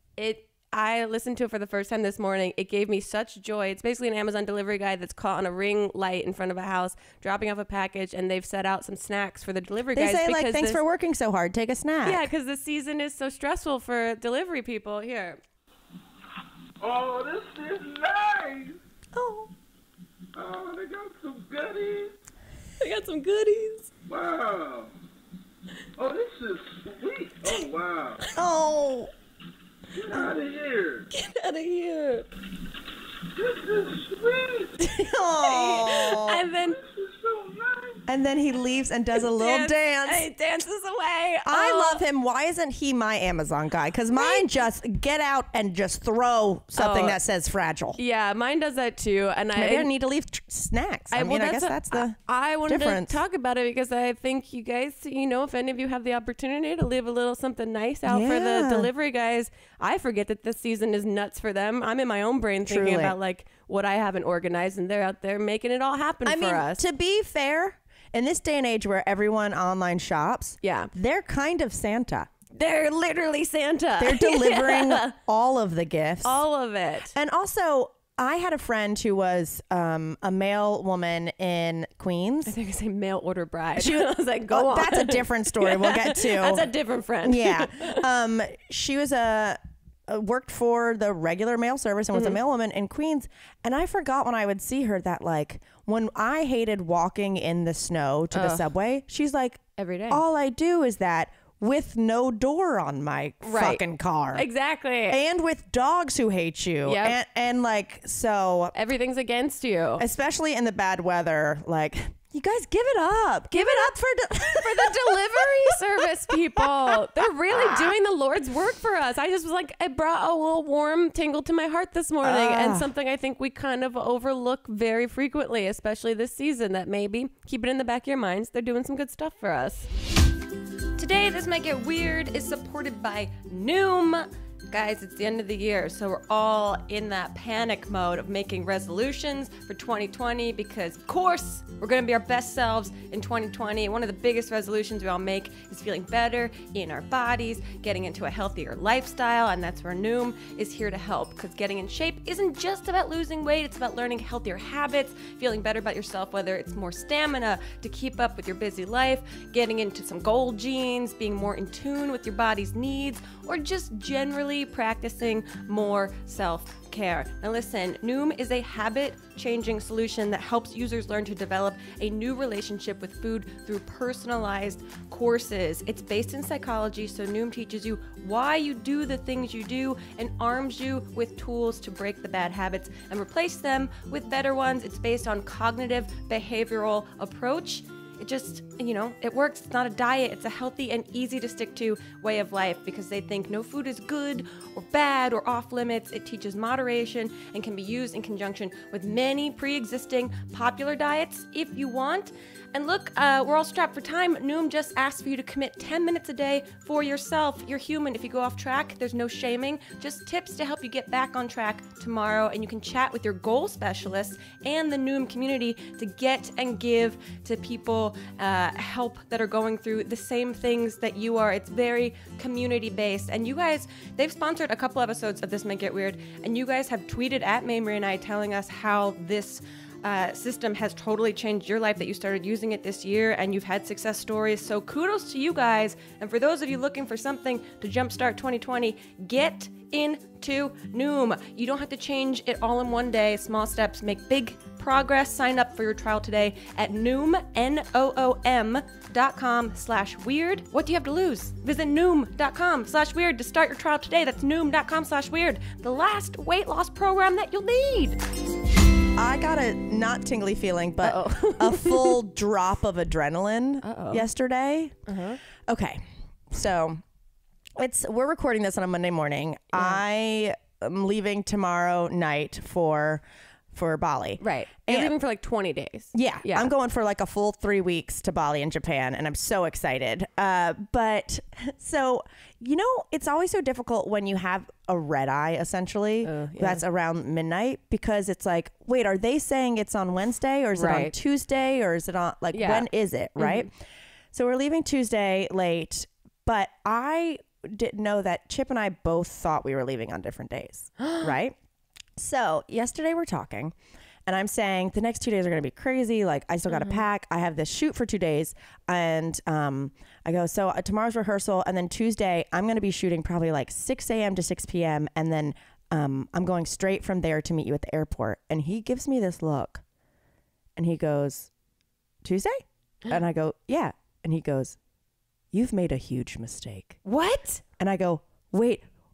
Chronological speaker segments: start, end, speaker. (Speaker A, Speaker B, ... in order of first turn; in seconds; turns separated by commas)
Speaker A: 0.2-10.8, Speaker B: 9.9-12.3, Speaker A: 12.0-15.4, Speaker C: 16.8-18.8, Speaker B: 19.1-19.5, Speaker C: 20.3-22.1, Speaker A: 22.8-23.9, Speaker C: 24.1-24.9, Speaker C: 26.0-28.2, Speaker B: 28.3-29.1, Speaker C: 29.9-31.1, Speaker A: 31.1-32.2, Speaker C: 33.3-34.8, Speaker B: 34.9-36.4, Speaker A: 35.2-36.8, Speaker C: 36.6-38.0, Speaker B: 38.1-40.2, Speaker A: 39.2-42.0, Speaker B: 41.5-48.0, Speaker A: 44.1-44.5, Speaker A: 46.8-47.2, Speaker A: 48.0-49.9, Speaker B: 49.5-53.2, Speaker A: 51.1-66.8, Speaker B: 58.1-58.9, Speaker B: 62.6-63.1, Speaker B: 66.2-72.3, Speaker A: 70.6-70.9, Speaker A: 72.5-75.1, Speaker B: 74.0-76.4, Speaker A: 76.2-77.1, Speaker B: 77.1-82.5, Speaker A: 82.5-88.0, Speaker B: 83.8-86.7, Speaker B: 87.2-104.5, Speaker A: 98.3-98.7, Speaker A: 99.8-100.2, Speaker A: 103.4-103.8, Speaker A: 104.3-105.2, Speaker B: 105.1-108.7, Speaker A: 106.8-107.2, Speaker A: 108.7-110.0, Speaker B: 110.0-117.9, Speaker A: 113.5-129.9, Speaker B: 122.2-122.9, Speaker A: 131.0-258.2, Speaker B: 259.1-265.0, Speaker A: 261.0-262.2, Speaker A: 263.8-264.2, Speaker A: 265.1-265.4, Speaker B: 265.7-267.0, Speaker B: 267.8-275.1, Speaker A: 274.4-276.7, Speaker B: 276.1-293.7, Speaker A: 286.2-286.8, Speaker A: 290.7-291.1, Speaker A: 292.5-293.7, Speaker B: 294.3-301.6, Speaker A: 301.0-301.2, Speaker B: 302.2-303.7, Speaker B: 304.2-319.8, Speaker A: 306.7-307.0, Speaker B: 320.8-321.5, Speaker B: 322.2-324.8, Speaker B: 325.5-327.0, Speaker A: 327.0-327.6, Speaker B: 327.8-328.8